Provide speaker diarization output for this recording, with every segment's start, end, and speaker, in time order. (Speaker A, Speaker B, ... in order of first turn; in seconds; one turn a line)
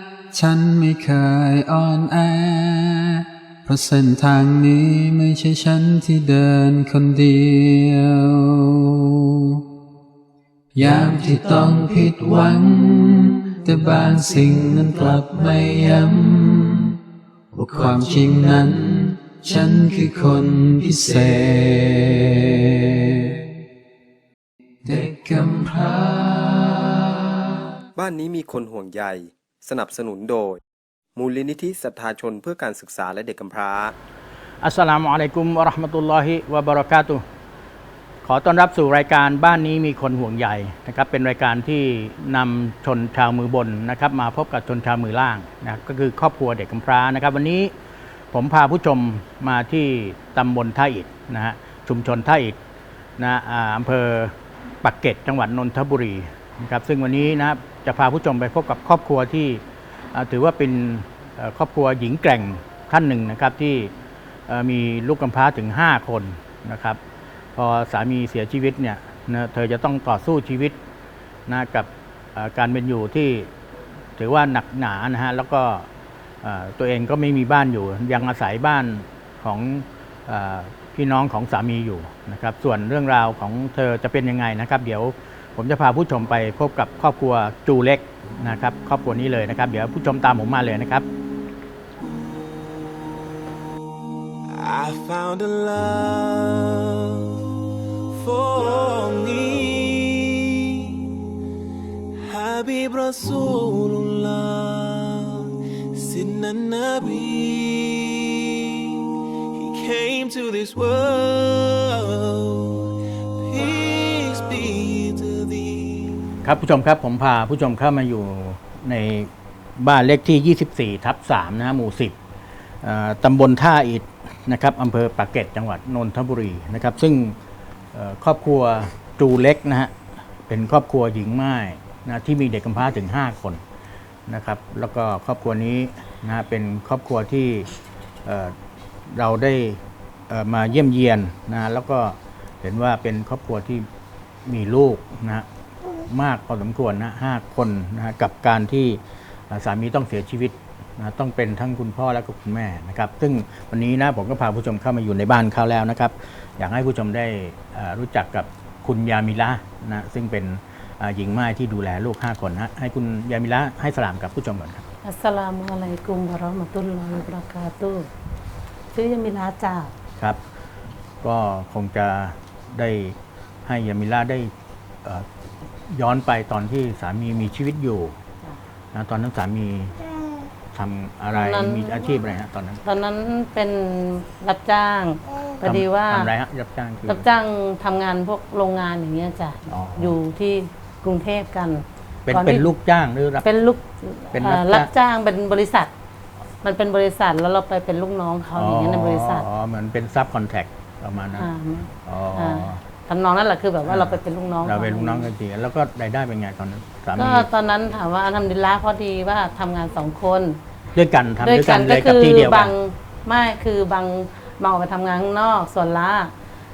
Speaker A: 0.3-9.6
Speaker A: 10.8-17.0
Speaker A: 17.5-23.3
Speaker A: 24.8-27.6
Speaker B: 27.9-30.6
Speaker B: 31.1-33.9
Speaker C: 34.6-37.2
Speaker C: 38.2-47.7
Speaker C: 48.3-52.6
Speaker C: 53.2-63.9
Speaker C: 64.5-67.0
Speaker C: 67.5-70.8
Speaker C: 71.5-73.5
Speaker C: 74.2-75.9
Speaker C: 76.4-91.0
Speaker D: 94.5-97.4
Speaker D: 98.1-100.9
Speaker D: 102.2-109.0
Speaker D: 109.5-112.9
Speaker D: 113.4-116.3
Speaker C: 116.4-122.2
Speaker C: 122.8-127.4
Speaker C: 127.9-129.9
Speaker C: 130.5-133.6
Speaker C: 134.3-137.7
Speaker C: 138.2-138.5
Speaker C: 139.1-143.9
Speaker C: 144.4-145.5
Speaker C: 146.1-164.9
Speaker E: 165.0-168.1
Speaker E: 168.9-169.9
Speaker C: 171.2-174.5
Speaker C: 175.9-178.2
Speaker C: 178.9-180.0
Speaker C: 180.7-182.8
Speaker E: 181.3-182.2
Speaker E: 182.8-186.3
Speaker C: 185.6-187.2
Speaker E: 187.1-192.7
Speaker C: 189.7-190.2
Speaker C: 192.3-193.4
Speaker E: 193.4-195.9
Speaker C: 194.3-194.9
Speaker E: 196.6-199.4
Speaker C: 198.5-202.8
Speaker E: 201.3-205.3
Speaker C: 203.8-207.5
Speaker E: 207.2-210.6
Speaker C: 210.9-212.7
Speaker E: 211.4-216.3